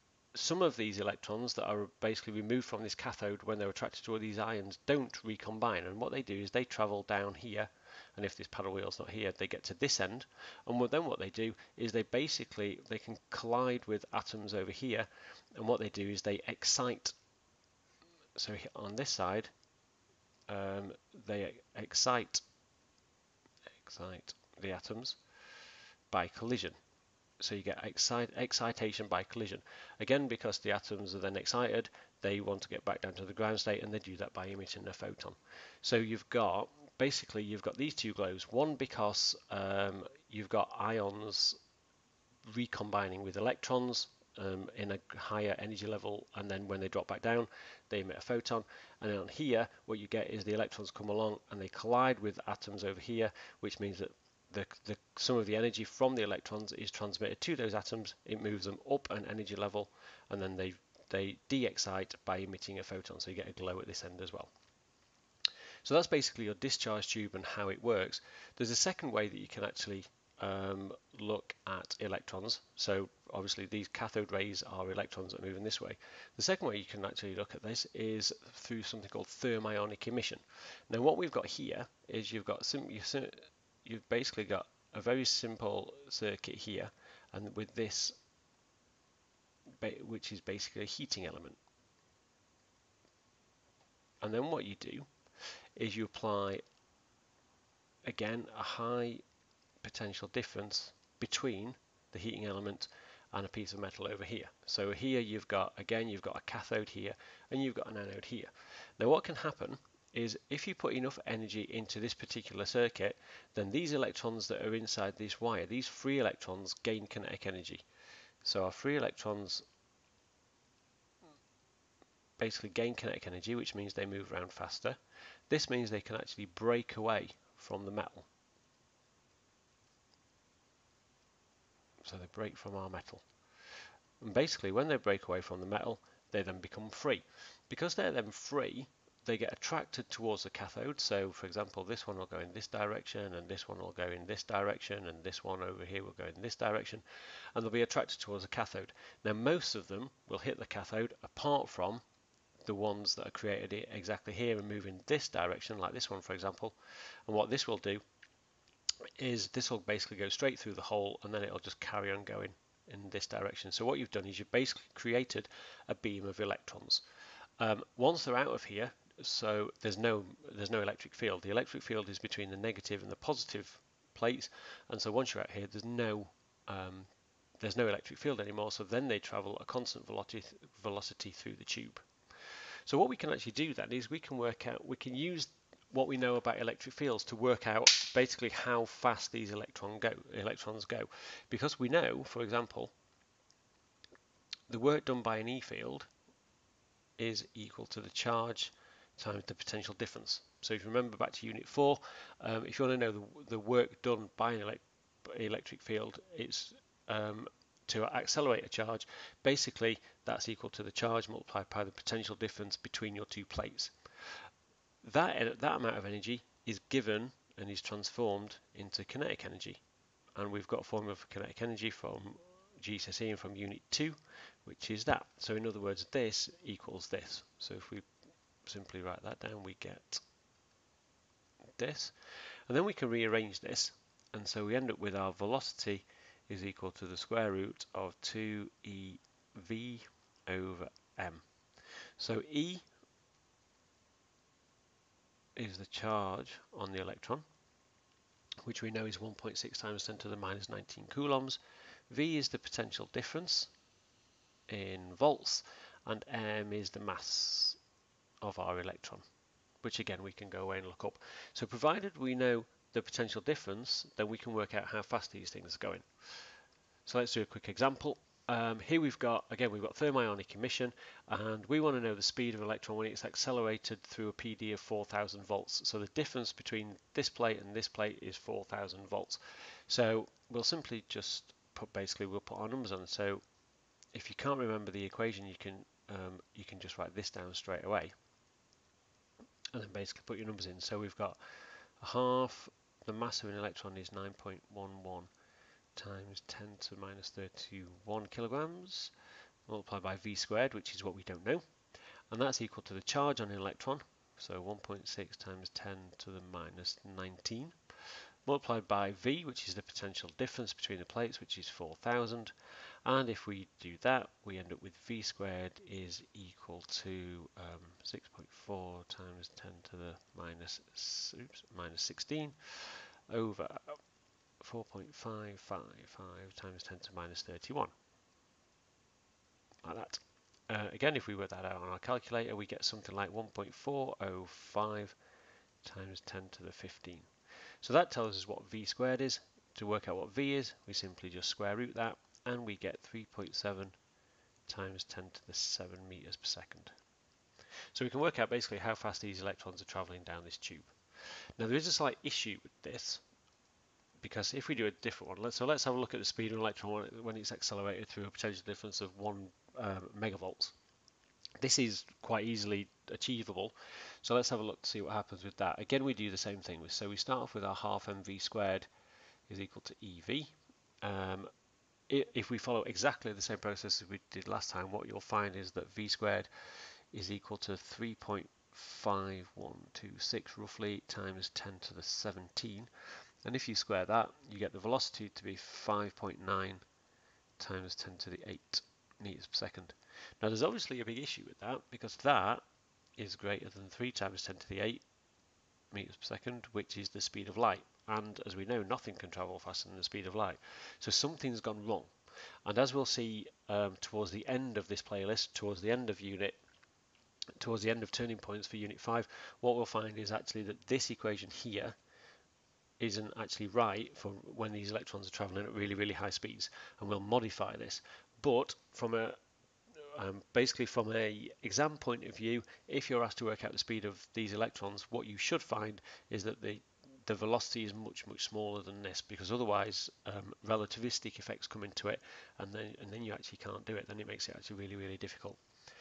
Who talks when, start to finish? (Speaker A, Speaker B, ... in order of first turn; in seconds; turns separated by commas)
Speaker A: 0.3-17.1, Speaker A: 18.4-19.5, Speaker A: 20.5-22.4, Speaker A: 23.8-25.2, Speaker A: 26.1-26.8, Speaker A: 27.4-41.6, Speaker A: 42.5-64.5, Speaker A: 65.8-88.2, Speaker A: 89.8-91.6, Speaker A: 94.2-95.1, Speaker A: 95.8-96.6, Speaker A: 98.0-99.2, Speaker A: 99.8-117.8, Speaker A: 118.4-119.7, Speaker A: 122.4-128.3, Speaker A: 132.0-133.2, Speaker A: 134.2-147.0, Speaker A: 147.5-152.0, Speaker A: 152.6-158.0, Speaker A: 159.2-167.0, Speaker A: 167.6-182.0, Speaker A: 182.8-192.9, Speaker A: 194.7-196.1, Speaker A: 197.2-213.9, Speaker A: 215.0-219.8, Speaker A: 220.3-228.1, Speaker A: 228.7-230.2, Speaker A: 231.8-232.1, Speaker A: 232.7-241.4, Speaker A: 242.2-242.8, Speaker A: 245.6-247.4, Speaker A: 248.6-251.6, Speaker A: 252.1-253.7, Speaker A: 254.7-257.8, Speaker A: 258.4-259.2, Speaker A: 259.8-266.1, Speaker A: 267.1-283.4, Speaker A: 284.1-288.1, Speaker A: 289.7-291.4, Speaker A: 292.0-295.3, Speaker A: 295.9-299.1, Speaker A: 299.7-301.6, Speaker A: 302.3-307.8, Speaker A: 308.4-312.5, Speaker A: 313.0-324.0, Speaker A: 324.6-327.9, Speaker A: 329.8-335.1, Speaker A: 335.8-337.3, Speaker A: 337.8-344.0, Speaker A: 344.7-346.9, Speaker A: 347.9-350.9, Speaker A: 351.6-353.2, Speaker A: 354.2-360.7, Speaker A: 361.6-368.9, Speaker A: 369.5-371.5, Speaker A: 372.1-376.5, Speaker A: 377.1-382.9, Speaker A: 383.4-386.8, Speaker A: 387.6-392.6, Speaker A: 393.2-395.0, Speaker A: 395.9-402.1, Speaker A: 402.6-406.6, Speaker A: 407.6-412.0, Speaker A: 413.0-419.4, Speaker A: 420.0-435.6